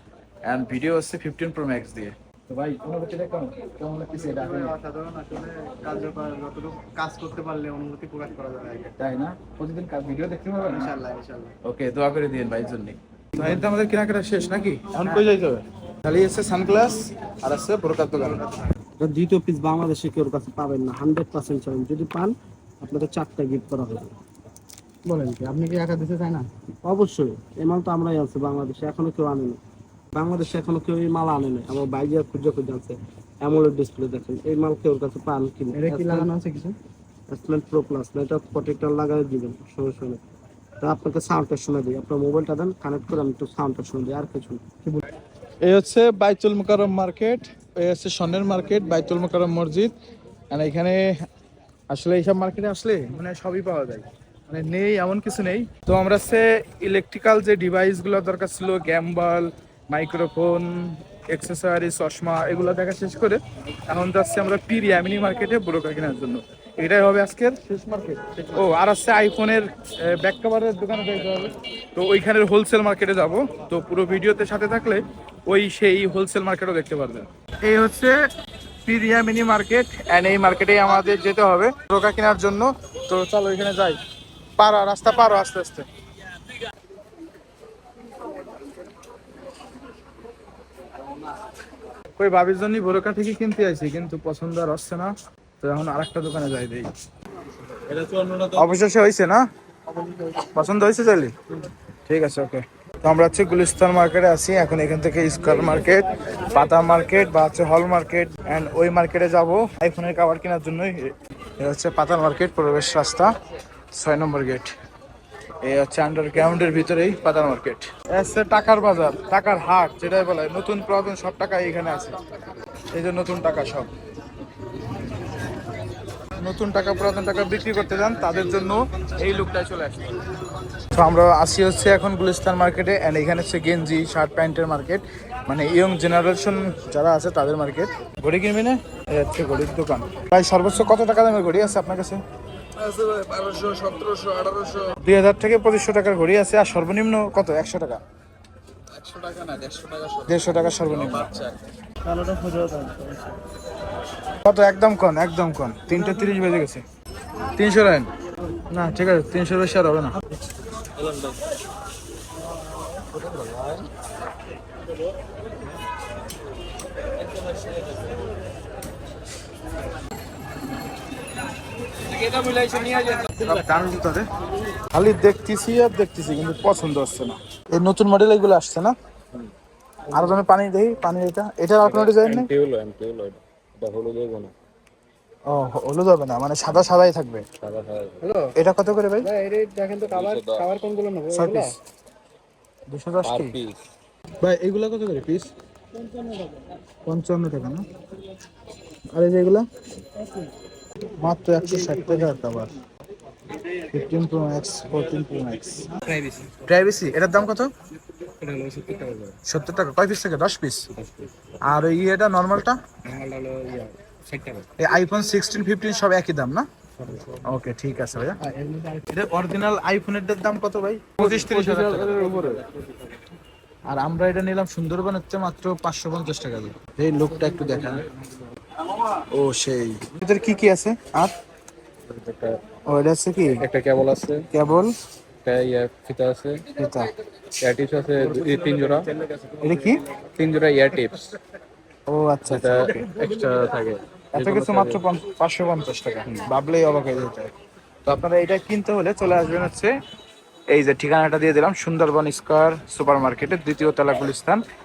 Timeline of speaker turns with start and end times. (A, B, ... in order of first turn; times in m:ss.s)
0:00.4-0:04.8 A
0:04.1-0:09.0 B
0:09.0-0:11.0 A
0:10.6-0:11.5 B
0:11.6-0:18.7 A
0:19.0-0:24.1 C
0:25.1-0:26.5 B
0:26.8-0:29.6 C
0:30.1-0:36.3 C
0:35.7-0:36.8 B
0:37.3-0:40.2 C
0:40.8-0:44.8 C
0:45.6-0:49.9 A
0:50.5-0:51.1 A
0:51.9-1:18.2 A
1:18.8-1:24.0 A
1:24.6-1:25.9 A
1:32.2-1:36.9 A
1:38.5-1:39.4 A
1:40.4-1:41.3 A
1:42.1-1:53.3 A
1:53.9-1:54.8 A
1:55.6-2:02.2 A
2:02.9-2:03.9 A
2:06.4-2:10.2 A
2:10.9-2:22.2 A
2:22.9-2:28.0 A
2:29.0-2:31.3 D
2:30.3-2:31.4 A
2:32.2-2:33.1 B
2:34.4-2:36.8 A
2:37.6-2:38.1 A
2:38.7-2:40.2 A
2:52.5-2:53.1 D
2:53.4-2:54.3 A
2:54.9-2:59.0 A
3:00.1-3:02.5 A
3:01.8-3:04.5 D
3:05.5-3:07.4 A
3:07.6-3:08.2 D
3:08.6-3:09.3 A
3:09.2-3:11.6 B
3:10.0-3:10.7 D
3:11.3-3:11.8 A
3:12.9-3:13.6 A
3:13.2-3:13.8 D
3:14.4-3:15.5 A
3:17.1-3:17.8 A
3:19.1-3:19.7 A
3:21.2-3:22.7 A
3:23.9-3:25.9 A
3:26.6-3:27.7 A
3:28.6-3:29.3 D
3:29.5-3:30.9 A
3:31.0-3:31.3 D
3:31.6-3:32.8 A
3:33.1-3:34.6 D
3:34.8-3:36.7 A
3:37.4-3:38.4 A
3:38.4-3:39.0 B
3:39.1-3:42.6 A
3:41.2-3:42.7 D
3:43.9-3:48.0 A
3:49.3-3:51.3 A
3:52.1-3:52.6 D
3:52.9-3:53.6 A
3:53.6-3:54.5 D
3:54.5-3:54.9 A
3:55.4-3:56.6 D
3:56.8-3:57.1 A
3:57.6-3:59.2 D
3:58.4-3:58.8 B
3:59.6-4:00.0 A
4:00.2-4:01.3 D
4:02.1-4:03.1 A
4:02.5-4:05.0 D
4:04.3-4:07.5 A
4:08.1-4:09.9 A
4:10.7-4:14.6 A